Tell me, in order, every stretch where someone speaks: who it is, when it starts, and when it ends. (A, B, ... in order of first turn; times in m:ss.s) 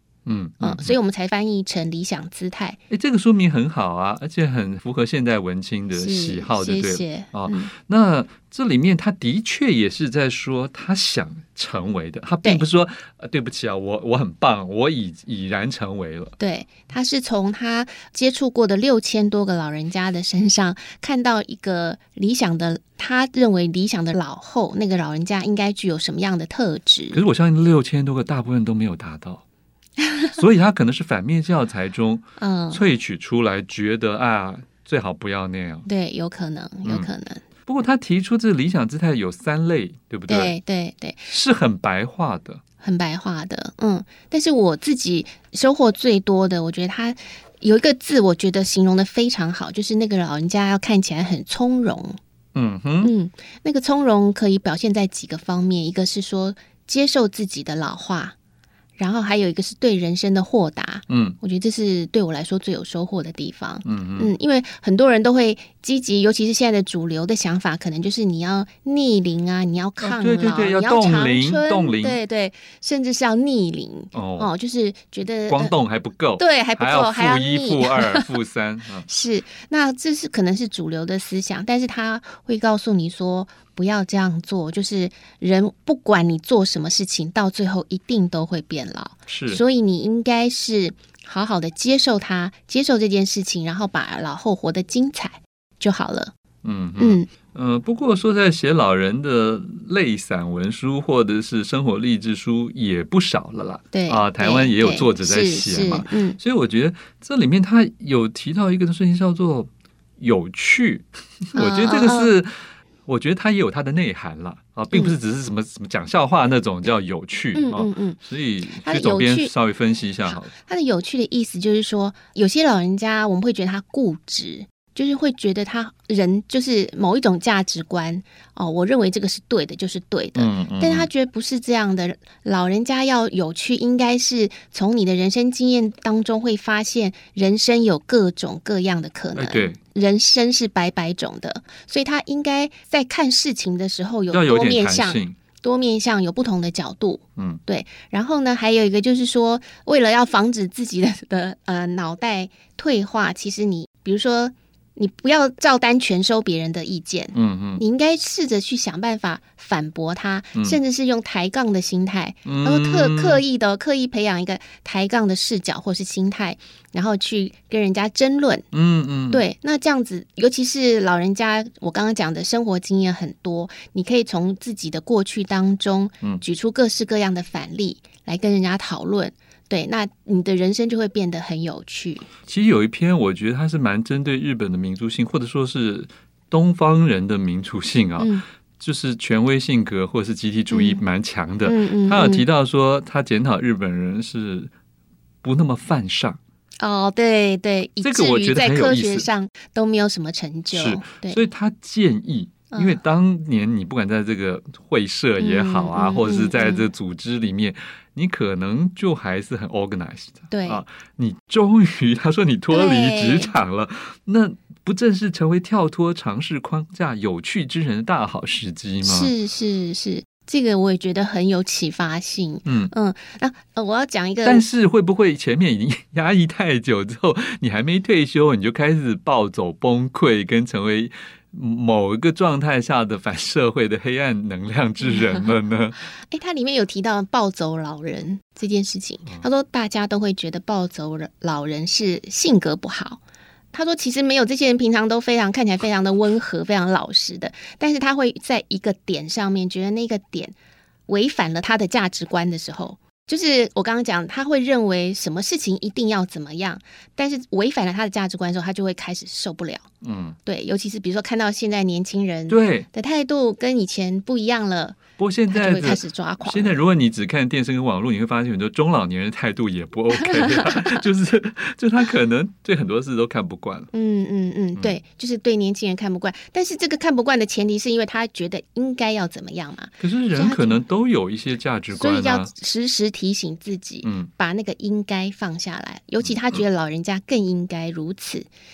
0:00.3-0:01.0 A
0:00.6-0:02.8 B
0:02.9-0:16.4 A
0:06.0-0:07.7 B
0:16.4-0:27.2 B
0:27.1-0:29.4 A
0:30.4-0:35.9 A
0:32.4-0:32.8 B
0:35.9-0:37.4 B
0:36.8-0:37.1 A
0:37.7-0:40.5 A
0:40.3-0:41.3 B
0:41.3-0:42.6 A
0:42.8-0:52.2 B
0:52.6-0:53.1 A
0:53.0-0:58.4 B
0:59.0-1:15.7 B
1:01.1-1:01.4 A
1:03.8-1:04.3 A
1:10.0-1:12.2 A
1:14.1-1:14.5 A
1:15.5-1:19.1 A
1:16.4-1:18.3 B
1:19.1-1:36.3 B
1:29.3-1:29.6 A
1:36.6-1:52.5 A
1:37.0-1:37.3 B
1:43.9-1:46.4 B
1:51.6-1:52.4 B
1:53.1-2:00.5 A
1:57.6-1:58.2 B
1:58.8-1:59.5 B
2:00.3-2:48.6 B
2:10.4-2:11.1 A
2:19.4-2:19.8 A
2:24.3-2:25.4 A
2:37.4-2:37.8 A
2:42.5-2:43.4 A
2:48.7-2:49.4 A
2:49.3-3:02.3 B
3:02.5-3:14.7 A
3:08.2-3:08.4 B
3:10.7-3:11.0 B
3:11.6-3:12.5 B
3:15.4-3:16.4 A
3:16.8-3:21.4 B
3:18.0-3:19.3 A
3:20.7-3:39.3 A
3:22.7-3:23.0 B
3:25.4-3:26.9 B
3:30.5-3:30.8 B
3:32.7-3:33.5 B
3:39.0-3:44.6 B
3:42.7-3:42.9 A
3:44.4-3:56.0 A
3:55.0-3:55.5 B
3:56.3-4:03.2 B
4:03.7-4:10.6 B
4:11.1-4:19.8 B
4:20.0-4:20.4 A
4:20.5-4:26.8 B
4:22.5-4:22.9 A
4:25.2-4:33.9 A
4:30.4-4:31.0 B
4:33.9-4:40.8 B
4:40.0-4:42.5 A
4:41.9-4:48.5 B
4:44.0-4:44.3 A